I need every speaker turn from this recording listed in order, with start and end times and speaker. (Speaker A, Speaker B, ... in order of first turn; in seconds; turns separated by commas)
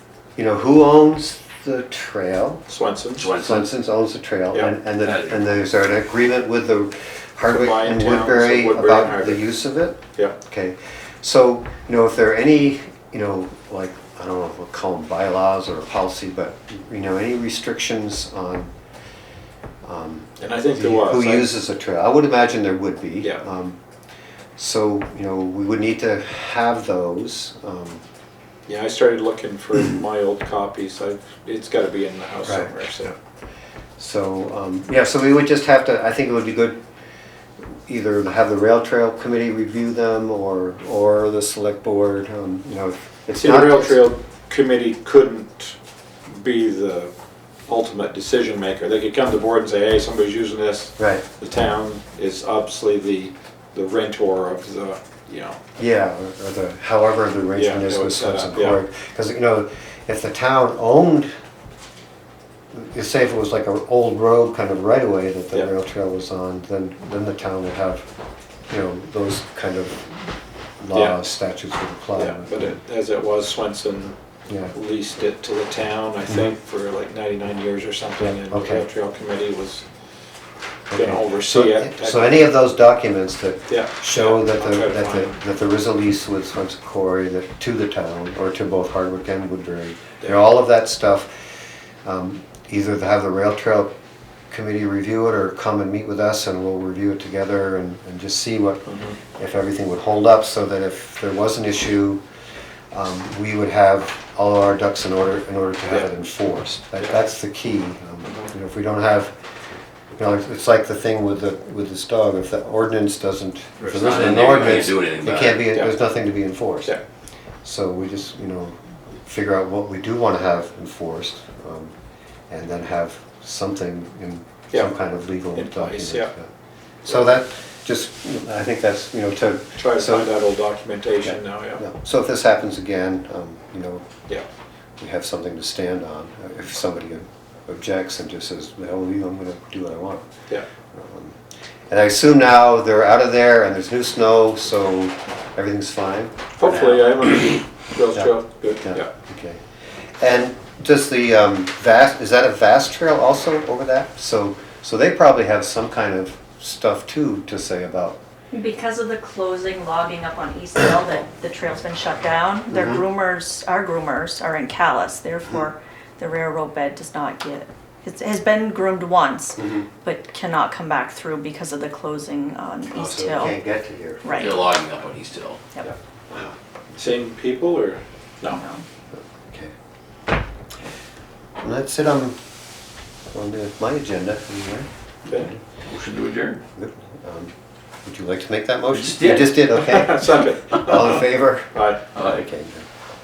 Speaker A: 0.4-2.6, Speaker B: 2.7-3.3, Speaker C: 3.1-3.7, Speaker A: 3.3-18.7, Speaker C: 5.0-5.5, Speaker B: 7.5-9.4, Speaker A: 19.8-23.8, Speaker B: 20.4-21.5, Speaker A: 24.6-28.0, Speaker B: 28.7-33.1, Speaker A: 32.4-32.7, Speaker A: 34.0-36.8, Speaker A: 37.9-44.0, Speaker B: 43.3-45.8, Speaker B: 46.3-47.1, Speaker B: 47.7-55.6, Speaker A: 51.0-51.2, Speaker A: 55.8-61.3, Speaker B: 57.6-58.8, Speaker A: 62.7-68.1, Speaker A: 68.7-70.2, Speaker A: 70.8-72.8, Speaker B: 72.2-74.2, Speaker B: 74.7-79.9, Speaker A: 78.5-78.8, Speaker A: 80.9-91.3, Speaker B: 80.9-82.4, Speaker B: 83.7-85.3, Speaker A: 92.0-93.9, Speaker A: 94.5-102.2, Speaker B: 98.9-99.2, Speaker A: 102.9-109.3, Speaker B: 108.2-108.5, Speaker A: 110.2-117.0, Speaker C: 113.9-115.7, Speaker A: 117.6-121.9, Speaker A: 122.5-126.5, Speaker B: 125.5-126.3, Speaker A: 127.0-130.3, Speaker B: 129.8-131.8, Speaker A: 131.2-134.1, Speaker A: 135.0-140.3, Speaker A: 140.9-141.4, Speaker A: 141.9-147.1, Speaker B: 146.6-149.1, Speaker A: 148.1-149.6, Speaker A: 150.2-158.2, Speaker D: 158.5-173.6, Speaker A: 162.7-163.1, Speaker A: 169.6-169.9, Speaker A: 172.9-174.8, Speaker D: 174.2-174.6, Speaker C: 174.3-175.6, Speaker B: 177.0-178.6, Speaker D: 178.5-178.8, Speaker A: 179.1-179.7, Speaker A: 181.6-182.4, Speaker A: 183.3-185.6, Speaker C: 185.9-186.6, Speaker A: 186.8-187.5, Speaker A: 188.1-192.9, Speaker C: 188.9-189.6, Speaker B: 189.7-192.1, Speaker C: 192.1-192.4